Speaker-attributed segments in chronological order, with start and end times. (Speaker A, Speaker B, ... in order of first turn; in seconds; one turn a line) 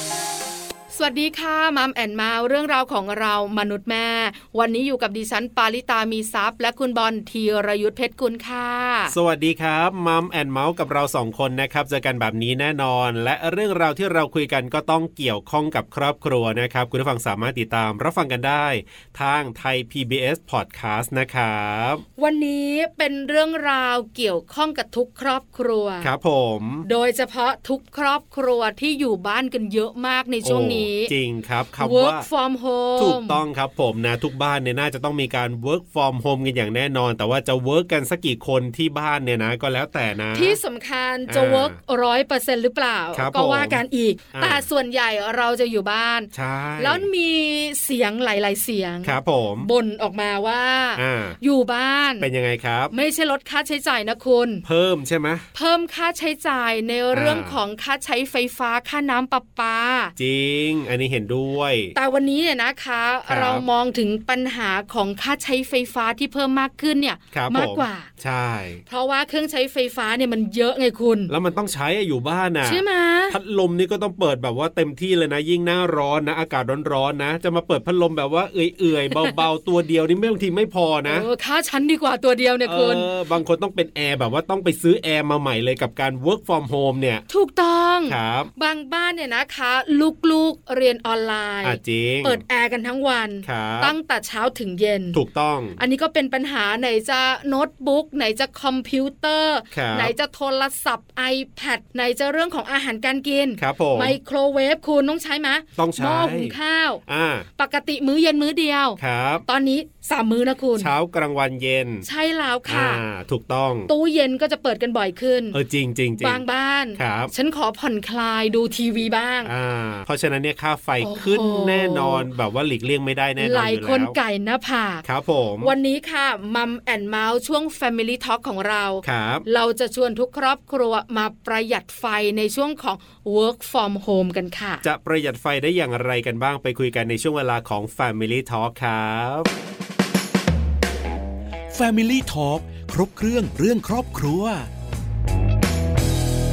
Speaker A: 0.9-9.2
Speaker B: 9.1-22.0
Speaker A: 22.2-26.1
Speaker B: 26.0-26.9
Speaker A: 26.8-31.1
Speaker B: 30.4-32.2
Speaker A: 31.8-33.4
Speaker B: 33.0-40.6
Speaker A: 40.3-52.3
Speaker B: 41.3-41.8
Speaker B: 43.1-43.8
Speaker B: 44.3-44.6
Speaker B: 46.3-47.1
Speaker B: 49.0-49.7
Speaker B: 51.0-51.4
Speaker B: 52.2-52.9
Speaker A: 52.9-54.6
Speaker B: 54.6-55.5
Speaker A: 55.5-60.1
Speaker B: 57.1-57.6
Speaker B: 60.2-61.9
Speaker A: 61.9-68.1
Speaker B: 63.3-63.6
Speaker B: 67.3-68.8
Speaker A: 68.9-71.3
Speaker B: 71.3-81.3
Speaker A: 72.6-73.4
Speaker A: 81.1-83.1
Speaker B: 82.6-87.2
Speaker A: 87.3-95.2
Speaker B: 88.1-88.5
Speaker B: 91.6-92.4
Speaker B: 93.4-93.9
Speaker B: 95.1-95.8
Speaker A: 95.8-107.0
Speaker B: 99.7-100.1
Speaker B: 103.6-104.2
Speaker B: 105.8-106.5
Speaker B: 107.1-107.5
Speaker A: 107.6-110.9
Speaker B: 109.0-109.5
Speaker B: 110.8-112.0
Speaker A: 112.0-113.0
Speaker B: 112.7-113.9
Speaker A: 113.9-115.6
Speaker B: 115.5-116.4
Speaker A: 116.2-119.5
Speaker B: 117.0-117.3
Speaker B: 119.4-124.2
Speaker A: 121.0-122.3
Speaker A: 123.4-125.0
Speaker B: 125.0-125.7
Speaker A: 125.6-134.8
Speaker B: 129.0-129.4
Speaker B: 134.8-139.5
Speaker C: 141.7-144.7